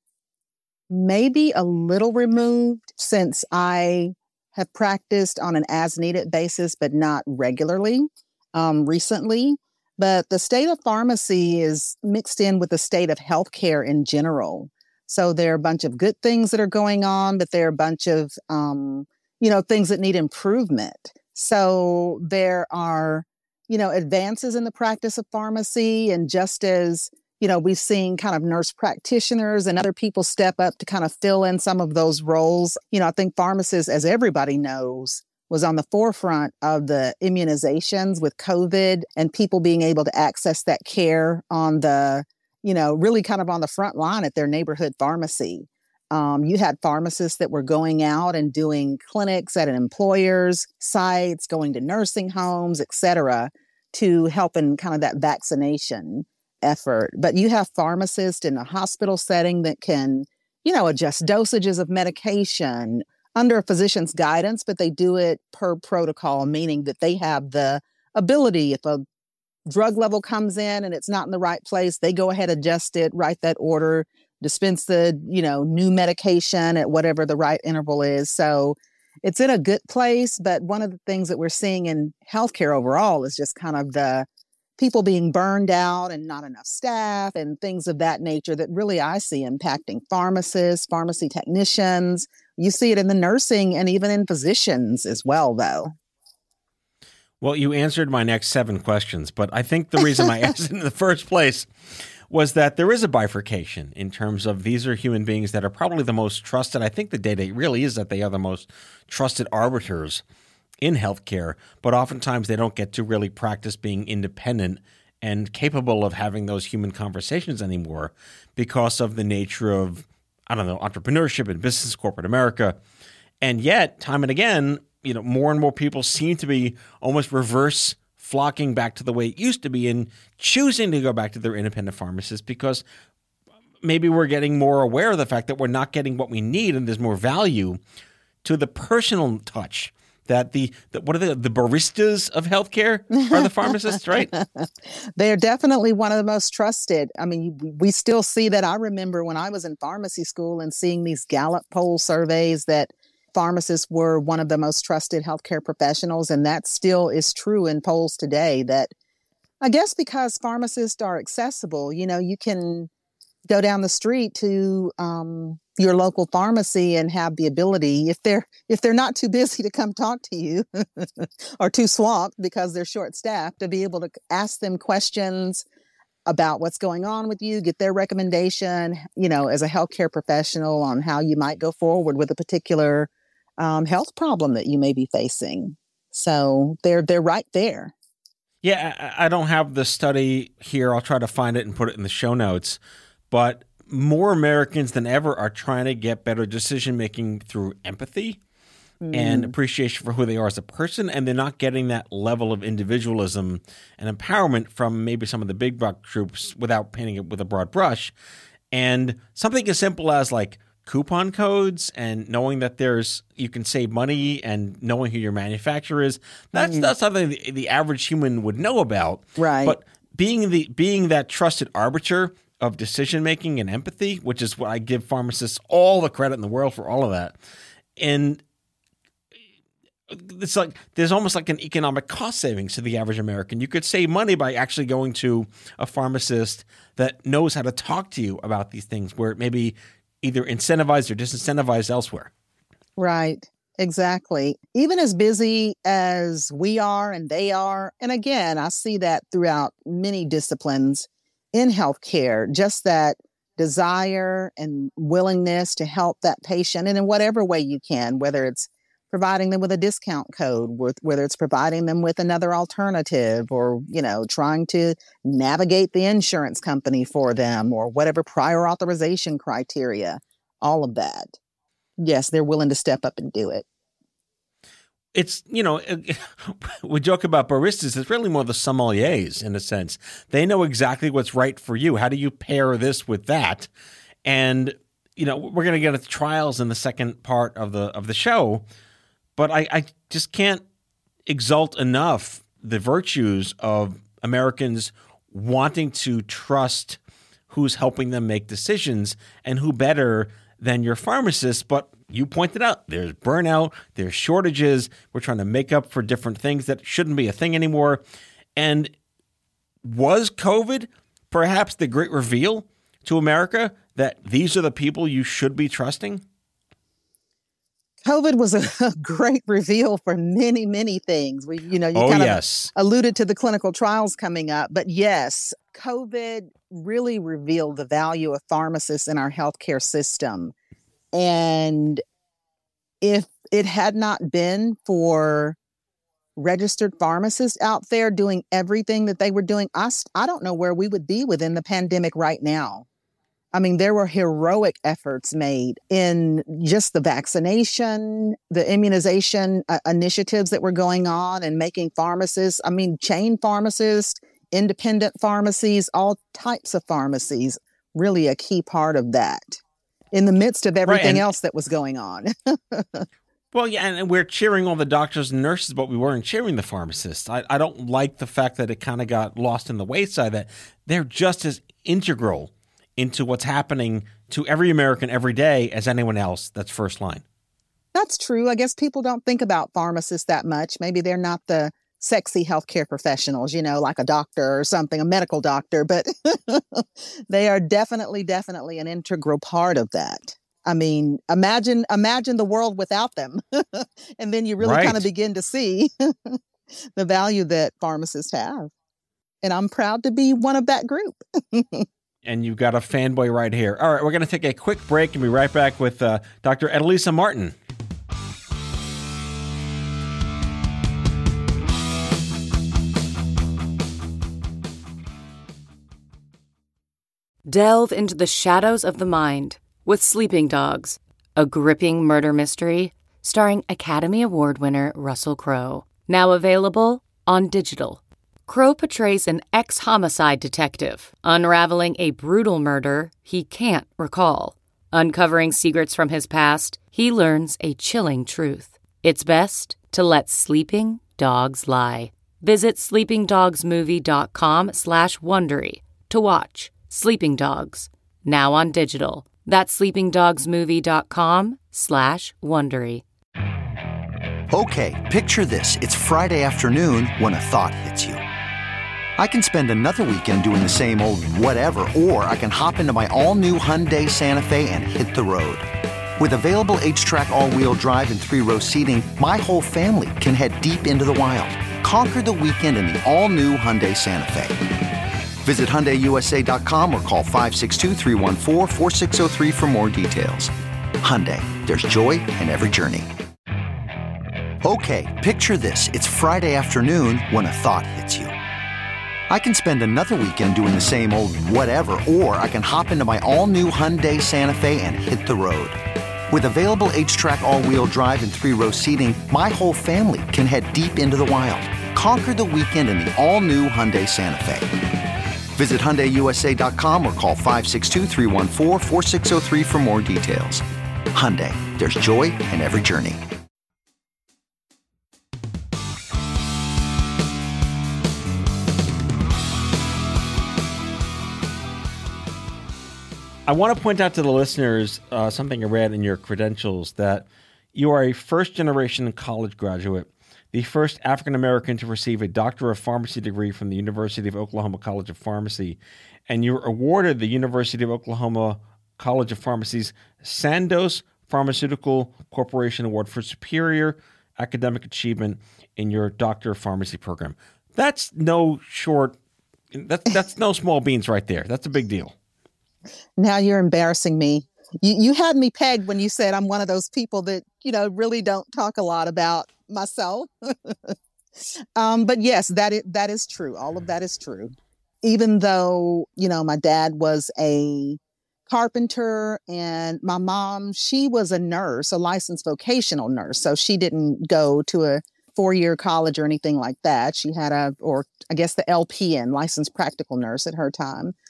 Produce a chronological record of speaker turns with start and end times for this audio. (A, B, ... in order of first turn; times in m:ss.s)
0:00.9-1:09.0 A
1:09.7-1:35.9 A
1:37.4-1:41.7 B
1:42.3-1:50.2 B
1:50.8-2:02.8 B
2:03.4-2:12.8 B
2:13.8-2:17.8 B
2:18.4-2:24.3 B
2:23.2-2:38.9 A
2:39.6-2:42.9 A
2:43.5-2:55.6 A
2:56.2-3:07.9 A
3:08.6-3:12.8 B
3:13.3-3:18.4 B
3:19.0-3:19.5 A
3:19.1-3:28.1 B
3:28.7-3:47.3 B
3:36.5-3:36.9 A
3:39.4-3:39.8 A
3:48.0-3:48.4 B
3:50.1-4:02.3 B
4:03.0-4:31.4 A
4:32.0-4:33.6 A
4:35.1-4:43.7 B
4:44.2-4:48.6 B
4:49.4-4:50.6 B
4:51.2-4:57.0 B
4:57.5-5:08.0 B
5:08.6-5:08.9 B
5:09.8-5:16.2 B
5:18.0-5:30.5 A
5:21.9-5:22.7 B
5:31.1-5:32.0 A
5:33.0-5:35.6 A
5:36.4-5:42.8 A
5:43.5-5:59.6 A
6:00.1-6:03.1 A
6:00.8-6:01.2 B
6:03.5-6:17.2 B
6:17.9-6:36.4 A
6:34.6-6:35.0 B
6:37.0-6:38.7 A
6:39.4-6:41.8 A
6:42.2-6:47.5 B
6:57.5-7:33.0 C
7:34.5-7:38.2 D
7:39.2-7:45.6 D
7:46.2-7:54.6 D
7:55.4-8:03.1 D
8:04.6-8:08.3 D
8:09.3-8:15.8 D
8:16.3-8:24.7 D
8:25.5-8:33.2 D
8:43.5-9:09.2 B
9:09.7-9:12.1 B
9:13.2-9:20.9 A
9:21.8-9:41.1 A